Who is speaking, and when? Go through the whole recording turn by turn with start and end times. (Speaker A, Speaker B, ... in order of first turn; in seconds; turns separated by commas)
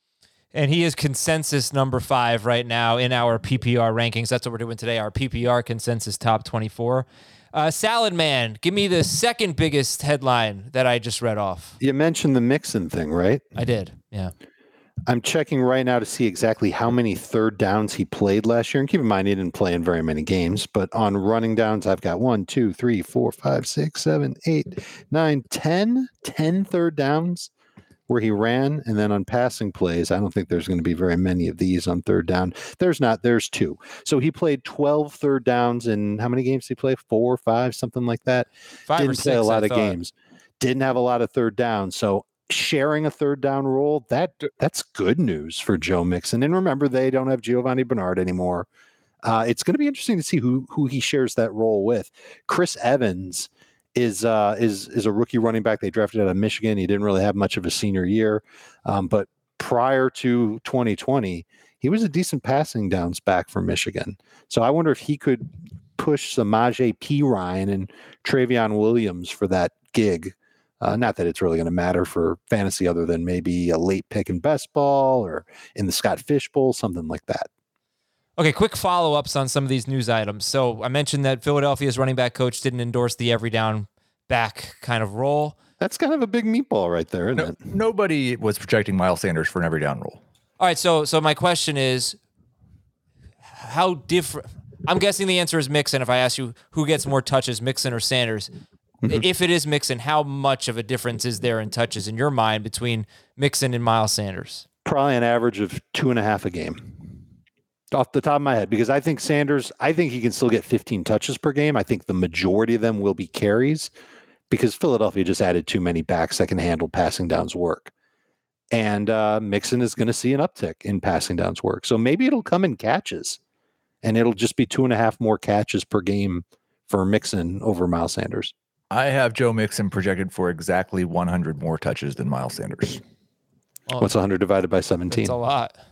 Speaker A: 0.5-11.8, Speaker B: 11.8-13.5, Speaker A: 13.6-14.3, Speaker B: 15.1-27.5, Speaker B: 28.1-48.7, Speaker A: 38.9-40.0, Speaker B: 49.2-77.5, Speaker A: 78.4-85.6, Speaker B: 85.8-87.6, Speaker C: 87.3-90.2, Speaker A: 90.6-92.2, Speaker A: 93.5-98.5, Speaker A: 99.1-104.6, Speaker B: 104.8-107.1, Speaker B: 107.9-113.9, Speaker B: 114.5-117.9, Speaker B: 118.7-123.4, Speaker B: 124.0-128.5, Speaker C: 128.9-133.0, Speaker A: 133.9-134.1, Speaker B: 134.0-135.4, Speaker A: 135.1-135.8